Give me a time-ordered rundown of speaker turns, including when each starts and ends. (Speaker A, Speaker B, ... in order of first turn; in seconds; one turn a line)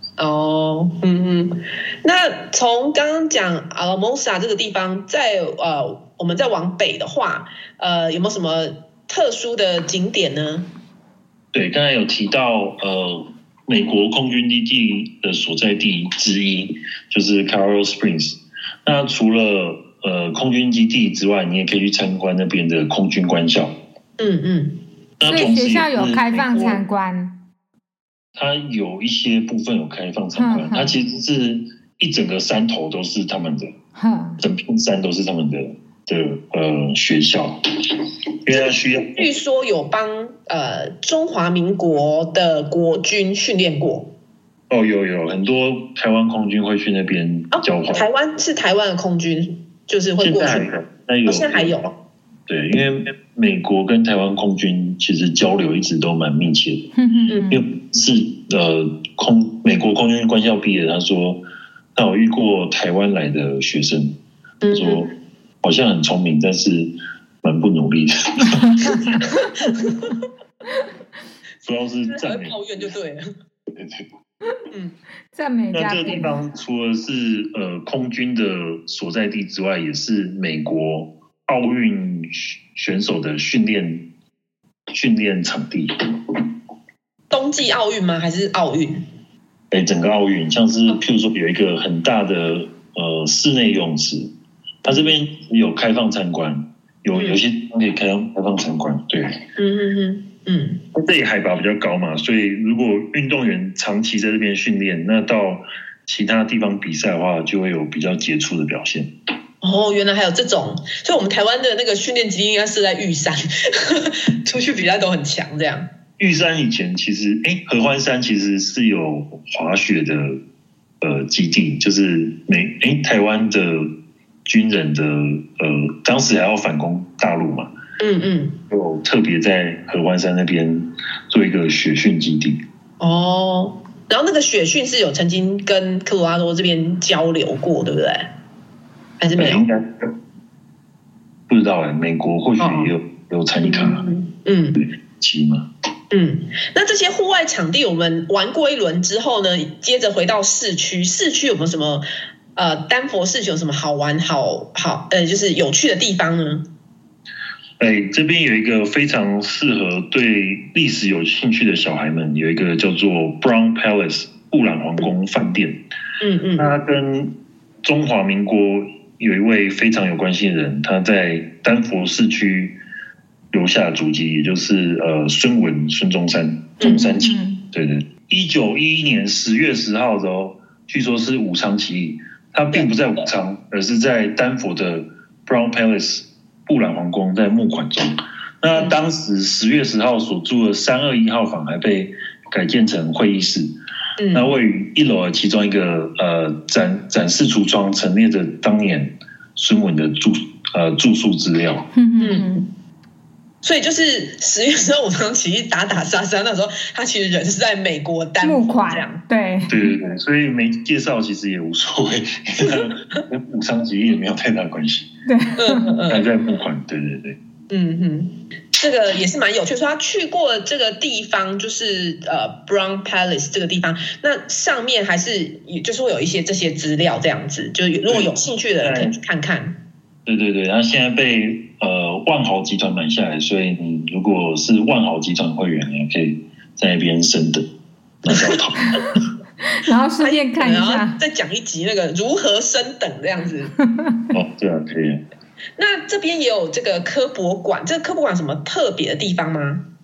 Speaker A: 0.2-10.7
Speaker B: 11.5-23.7
Speaker A: 24.2-24.8
Speaker B: 25.2-26.8
Speaker C: 25.2-27.3
Speaker B: 28.4-33.7
Speaker C: 30.4-30.9
Speaker C: 34.0-34.4
Speaker B: 34.4-37.6
Speaker B: 38.4-39.3
Speaker A: 38.5-44.1
Speaker B: 44.7-48.1
Speaker A: 47.5-50.7
Speaker B: 50.2-51.8
Speaker A: 51.2-51.9
Speaker B: 52.5-56.9
Speaker C: 57.0-57.5
Speaker A: 57.3-57.6
Speaker B: 57.5-61.4
Speaker B: 61.9-64.2
Speaker A: 64.6-65.1
Speaker B: 64.7-65.1
Speaker B: 65.6-69.2
Speaker C: 68.8-69.2
Speaker A: 69.6-70.1
Speaker B: 71.6-72.9
Speaker A: 72.1-73.3
Speaker B: 73.7-74.0
Speaker C: 75.3-76.3
Speaker B: 75.7-84.0
Speaker B: 84.9-86.4
Speaker A: 87.3-89.0
Speaker B: 89.7-94.3
Speaker B: 94.8-99.4
Speaker A: 94.8-95.1
Speaker A: 97.1-97.4
Speaker A: 99.6-100.8
Speaker B: 100.9-109.1
Speaker A: 109.6-115.9
Speaker B: 116.2-120.4
Speaker B: 121.0-123.9
Speaker B: 124.5-127.7
Speaker A: 128.0-128.6
Speaker B: 128.7-132.6
Speaker A: 133.0-138.3
Speaker A: 139.2-139.6
Speaker B: 139.3-140.1
Speaker B: 141.5-144.1
Speaker A: 142.6-142.9
Speaker A: 143.6-144.8
Speaker B: 144.8-145.7
Speaker A: 146.1-156.6
Speaker B: 157.8-165.8
Speaker A: 166.2-166.7
Speaker B: 166.6-172.8
Speaker B: 173.5-193.7
Speaker C: 176.8-177.6
Speaker A: 182.7-183.2
Speaker A: 194.2-194.5
Speaker B: 194.3-201.8
Speaker C: 201.9-202.7
Speaker A: 202.2-202.6
Speaker A: 203.6-209.2
Speaker C: 208.4-209.9
Speaker B: 209.7-215.1
Speaker A: 212.6-212.9
Speaker C: 215.3-215.9
Speaker A: 215.6-216.2
Speaker B: 216.1-217.4
Speaker A: 217.7-229.8
Speaker B: 228.8-229.1
Speaker B: 230.2-237.7
Speaker B: 238.2-238.9
Speaker A: 238.3-238.6
Speaker C: 239.8-241.2
Speaker A: 240.2-243.7
Speaker B: 244.3-245.2
Speaker A: 245.8-249.8